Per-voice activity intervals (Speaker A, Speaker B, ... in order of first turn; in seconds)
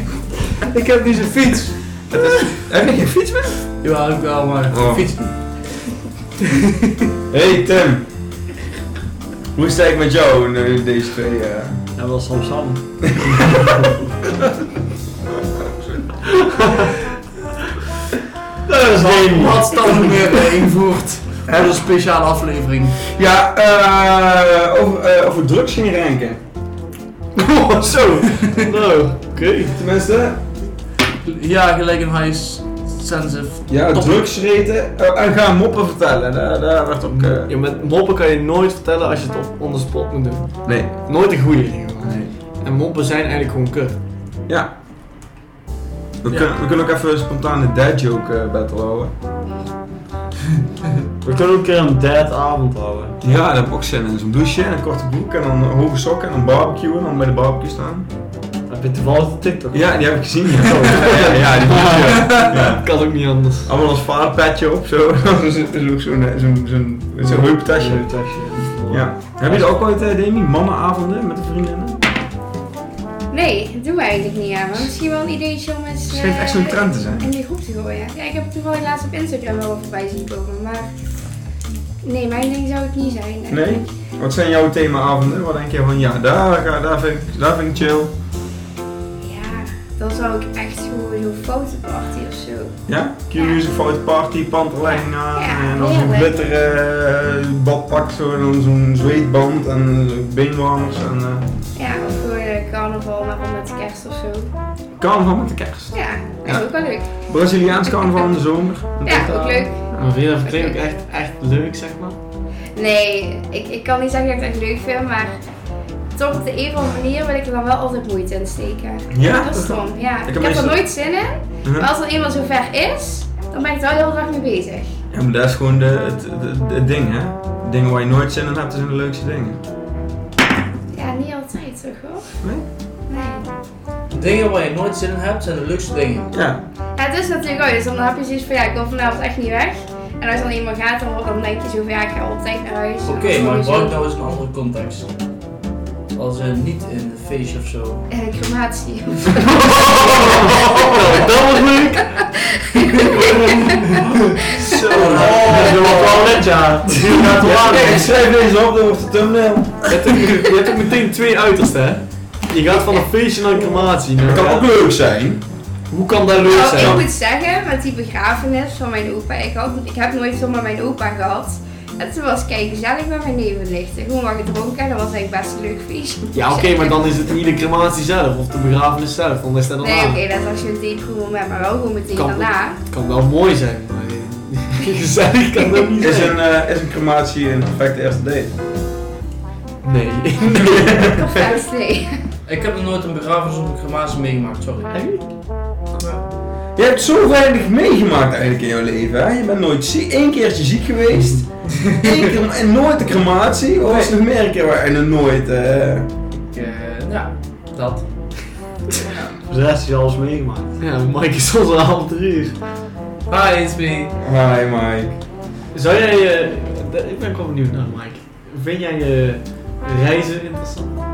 Speaker A: 0.6-1.8, 3.8-7.0, 19.0-22.9, 31.2-34.2, 134.1-136.3, 143.1-145.1, 146.1-148.1, 192.4-195.0, 195.9-196.3, 206.4-208.4, 213.3-214.1
Speaker B: 2.1-3.6, 4.7-5.1, 7.3-8.1, 9.5-11.8, 13.1-13.7, 21.5-21.7, 23.1-26.4, 29.7-30.4, 33.7-37.5, 40.6-41.0, 42.0-42.3, 46.2-49.1, 53.2-58.1, 59.7-62.9, 63.6-68.1, 68.9-72.0, 76.1-77.3, 83.5-88.1, 92.9-101.5, 105.0-106.7, 107.2-109.8, 119.1-120.8, 121.6-121.9, 125.1-129.6, 136.3-136.6, 154.7-156.3, 157.1-159.9, 164.2-165.4, 166.7-167.0, 186.0-188.5, 190.5-191.2, 196.8-206.1, 214.2-215.2
Speaker C: 11.9-14.0, 18.6-20.1, 51.2-53.2, 58.7-61.7, 67.2-69.7, 154.8-158.1, 209.5-210.8
Speaker D: 27.4-29.8, 37.1-44.0, 61.2-63.7, 109.9-112.2, 149.5-152.1, 153.0-154.1, 155.0-155.4, 159.8-164.7, 165.9-167.0, 176.3-180.2, 182.1-186.4, 189.8-191.1, 194.9-195.2, 210.8-212.6, 215.7-221.0
Speaker E: 73.3-81.0, 82.0-83.8, 89.2-92.8, 94.9-96.3, 101.8-104.5, 105.9-107.1, 109.0-109.8, 110.5-110.8, 112.8-115.3, 116.2-124.9, 130.9-132.2, 133.1-133.5, 136.9-143.9, 148.1-154.0, 154.6-155.1, 166.5-177.0, 179.8-182.8, 191.0-192.2